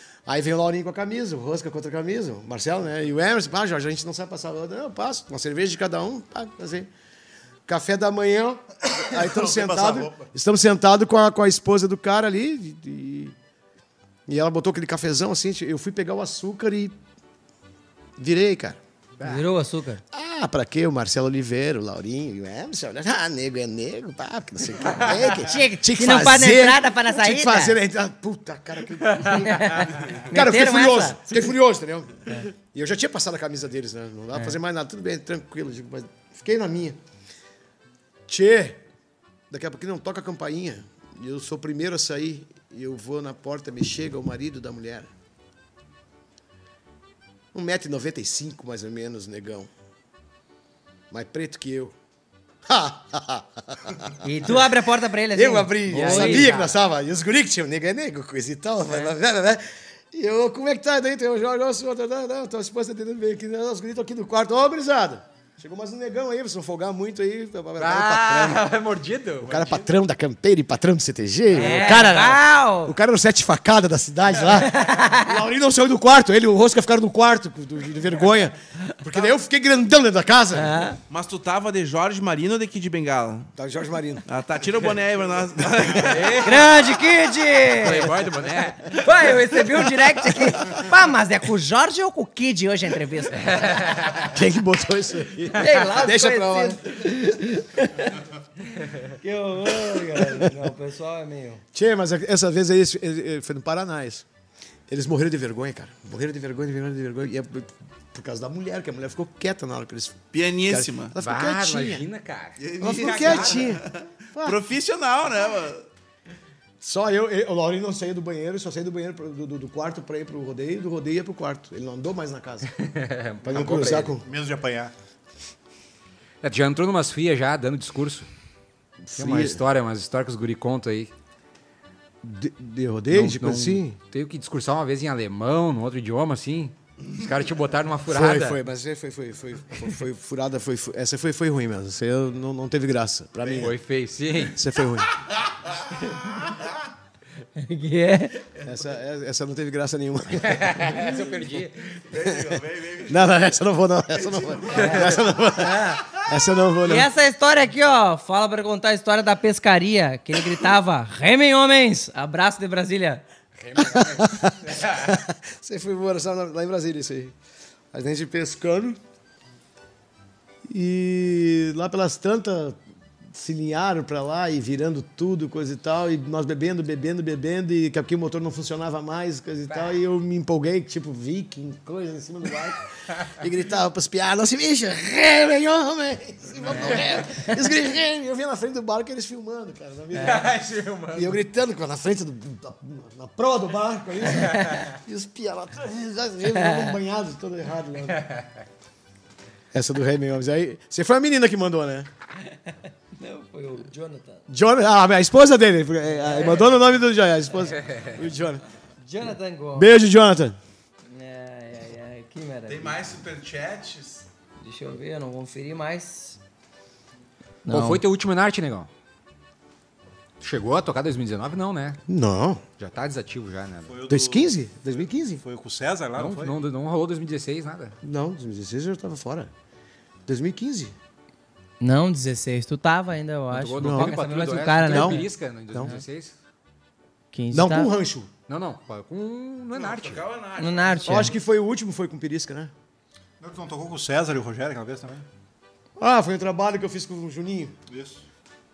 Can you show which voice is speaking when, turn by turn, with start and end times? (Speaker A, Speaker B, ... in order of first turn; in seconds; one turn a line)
Speaker A: 0.3-6.9
Speaker A: 7.7-13.3
Speaker B: 8.9-10.3
Speaker A: 14.3-16.9
Speaker A: 18.2-18.8
Speaker C: 19.2-19.4
Speaker D: 19.2-20.0
Speaker A: 20.1-37.0
Speaker D: 25.1-27.8
Speaker D: 29.2-31.4
Speaker A: 38.3-38.8
Speaker A: 39.5-45.1
Speaker A: 47.5-49.7
Speaker A: 51.1-51.9
Speaker A: 52.7-54.7
Speaker D: 54.2-56.8
Speaker A: 55.3-68.7
Speaker C: 55.9-56.6
Speaker C: 67.8-69.9
Speaker A: 69.4-80.8
Speaker D: 71.5-73.0
Speaker C: 71.5-72.0
Speaker D: 74.5-75.3
Speaker D: 80.5-81.0
Speaker E: 81.1-83.5
Speaker A: 83.6-84.2
Speaker E: 84.3-86.7
Speaker C: 85.9-86.8
Speaker D: 86.4-88.2
Speaker C: 87.8-89.0
Speaker D: 88.9-93.8
Speaker C: 93.4-94.3
Speaker A: 94.2-97.0
Speaker D: 95.5-98.2
Speaker D: 98.8-101.6
Speaker A: 99.8-100.5
Speaker A: 101.7-104.2
Speaker A: 104.9-112.0
Speaker E: 110.3-111.2
Speaker C: 111.2-113.7
Speaker E: 112.6-115.9
Speaker A: 112.8-114.6
Speaker A: 116.8-122.7
Speaker C: 122.7-124.2
Speaker A: 123.4-124.2
Speaker B: 123.5-124.9
Speaker C: 126.4-128.3
Speaker A: 129.0-129.6
Speaker C: 129.2-131.1
Speaker A: 132.2-134.0
Speaker C: 133.1-138.6
Speaker A: 138.1-143.8
Speaker C: 143.5-144.6
Speaker A: 144.5-145.1
Speaker D: 147.6-148.5
Speaker A: 148.6-151.3
Speaker C: 150.3-152.0
Speaker E: 152.1-153.4
Speaker A: 152.3-152.5
Speaker A: 153.1-157.1
Speaker E: 154.2-155.3
Speaker D: 154.7-156.0
Speaker D: 156.8-163.2
Speaker C: 163.6-165.1
Speaker A: 163.8-167.3
Speaker A: 167.9-169.0
Speaker A: 170.7-172.8
Speaker A: 173.3-190.5
Speaker D: 186.7-187.5
Speaker D: 190.2-190.5
Speaker C: 190.2-191.4
Speaker A: 191.1-198.3
Speaker D: 194.4-194.8
Speaker D: 196.6-196.9
Speaker A: 199.7-202.1
Speaker D: 202.5-204.4
Speaker A: 204.5-208.6
Speaker D: 209.0-209.9
Speaker A: 209.7-210.6
Speaker D: 211.1-213.0
Speaker E: 212.7-214.3
Speaker D: 214.6-216.4
Speaker D: 217.7-218.0
Speaker C: 217.7-218.9
Speaker C: 220.4-222.0
Speaker A: 222.1-222.6
Speaker C: 222.8-223.9
Speaker B: 223.9-226.6
Speaker A: 224.1-225.4
Speaker C: 226.2-228.0
Speaker A: 228.0-229.5
Speaker A: 230.3-230.9
Speaker D: 231.8-235.3
Speaker C: 233.5-236.3
Speaker A: 233.8-234.2
Speaker A: 234.9-235.9
Speaker D: 237.3-237.9
Speaker A: 237.5-238.3
Speaker C: 238.5-240.2
Speaker E: 239.7-241.4
Speaker D: 240.6-241.3
Speaker A: 241.1-242.7
Speaker B: 243.4-245.3
Speaker A: 246.0-247.8
Speaker B: 247.9-248.2